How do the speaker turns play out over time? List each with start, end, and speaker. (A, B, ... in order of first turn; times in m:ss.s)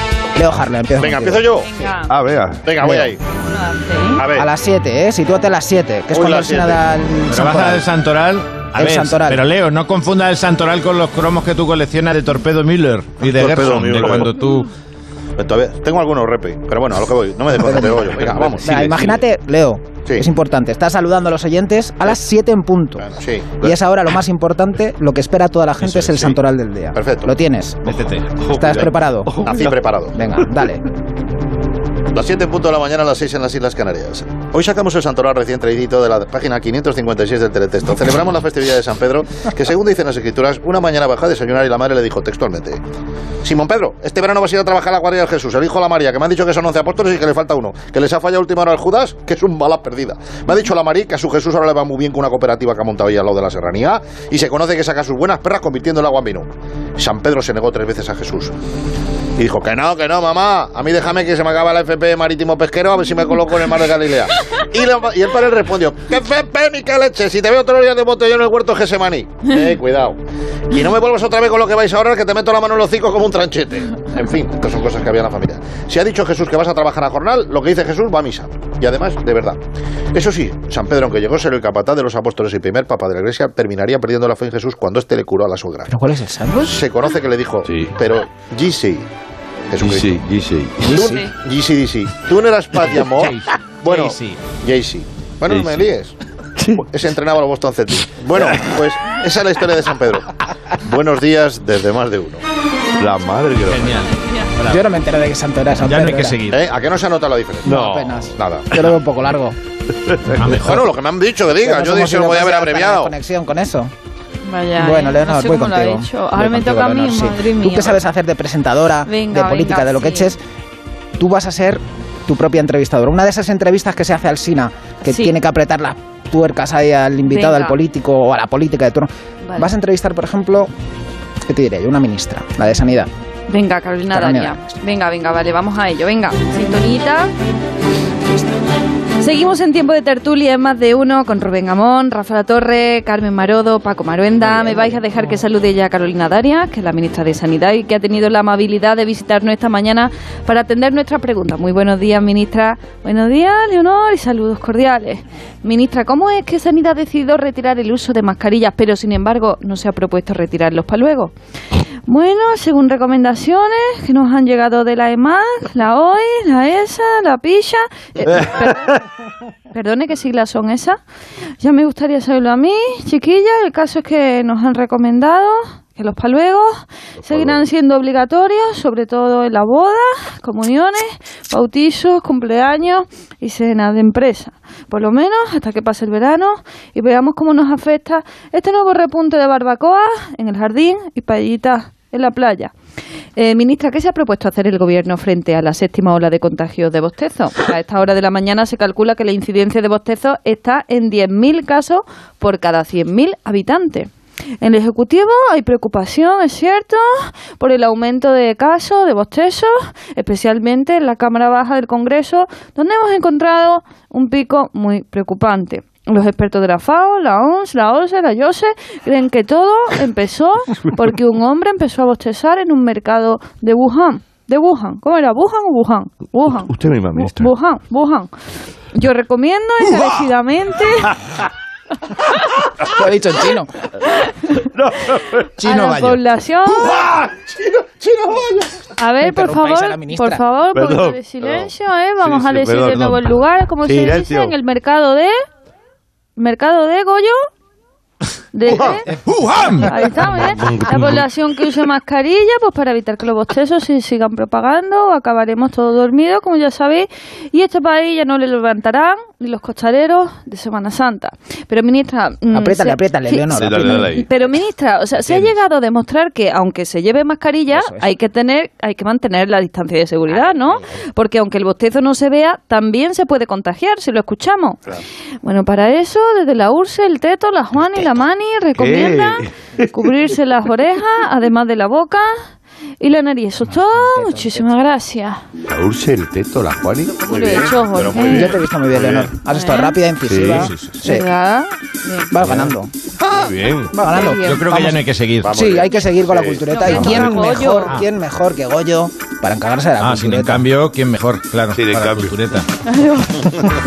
0:00.4-0:01.5 A
0:01.0-0:01.7 B
0:01.6-0:02.1 C
0:02.1-0:02.8 D
0:02.6-0:03.2 B
0:02.8-0:03.1 A
0:03.3-0:04.2 C
0:04.2-0:04.5 B
0:04.3-0:07.8 A
0:06.1-0:06.8 B
0:07.3-0:14.7 E
0:08.8-0:09.4 A
0:13.2-0:14.3 B
0:15.4-0:18.8 B
0:17.6-0:23.0 A
0:17.8-0:19.2 D
0:23.0-0:23.6 B
0:23.6-0:28.0 A
0:25.8-0:26.4 D
0:27.0-0:27.3 B
0:27.9-0:28.4 E
0:28.4-0:30.0 D
0:28.5-0:29.4 A
0:29.4-0:30.2 B
0:30.1-0:30.8 A
0:32.1-0:42.8 B
0:43.4-0:58.5 B
0:59.4-1:10.2 B
1:10.7-1:19.6 B
1:20.1-1:25.9 B
1:25.9-1:26.8 A
1:26.6-1:29.1 B
1:27.6-1:28.0 D
1:29.7-1:30.2 B
1:29.8-1:31.1 D
1:30.8-1:31.3 A
1:30.8-1:36.1 B
1:33.1-1:34.5 E
1:35.5-1:35.9 D
1:36.6-1:36.9 D
1:36.9-1:42.4 B
1:38.4-1:38.8 D
1:43.0-1:43.9 D
1:43.7-1:44.9 E
1:44.7-1:46.4 A
1:45.8-1:46.7 E
1:46.5-1:47.8 B
1:47.6-1:48.4 D
1:47.6-1:49.6 A
1:48.4-1:48.7 B
1:50.1-1:50.6 D
1:50.3-1:50.9 E
1:50.5-1:53.2 B
1:51.6-1:53.9 A
1:54.4-1:58.0 C
1:54.8-2:00.4 A
1:59.1-2:00.4 C
2:01.2-2:10.7 A
2:05.1-2:05.4 C
2:07.3-2:07.8 C
2:11.5-2:13.1 A
2:13.5-2:17.3 C
2:14.1-2:14.7 A
2:19.2-2:41.3 C
2:24.4-2:25.0 A
2:42.1-2:49.0 C
2:49.7-2:51.0 C
2:51.6-3:12.7 C
2:57.2-2:57.6 D
3:13.4-3:24.1 C
3:24.6-3:48.3 C
3:46.5-3:47.5 D
3:48.9-3:51.2 C
3:52.8-3:53.7 A
3:54.6-3:55.5 D
3:55.6-3:56.2 E
3:55.6-3:57.0 C
3:56.7-3:58.6 D
3:59.0-4:05.4 C
3:59.2-4:00.4 A
4:00.7-4:04.5 D
4:06.4-4:07.4 C
4:08.5-4:09.1 C
4:08.7-4:09.0 D
4:09.1-4:09.9 E
4:09.8-4:34.8 C
4:10.3-4:11.3 D
4:22.5-4:24.1 A
4:23.5-4:24.3 D
4:25.2-4:25.5 D
4:27.7-4:28.1 A
4:35.4-4:42.4 C
4:38.8-4:39.9 D
4:43.0-4:45.4 C
4:43.7-4:44.6 A
4:45.7-4:47.3 D
4:47.2-4:48.6 C
4:47.3-4:49.3 B
4:48.2-4:51.3 A
4:49.5-4:50.0 C
4:50.2-4:50.7 D
4:50.5-4:50.9 E
4:51.0-4:52.3 C
4:52.3-4:52.9 A
4:53.2-4:53.9 D
4:53.9-4:55.0 A
4:54.1-4:54.6 C
4:54.3-4:55.6 E
4:55.4-4:56.6 B
4:55.5-5:00.7 A
4:56.7-4:58.0 C
4:56.9-4:58.1 E
5:00.0-5:02.7 E
5:01.7-5:02.4 D
5:02.9-5:03.5 C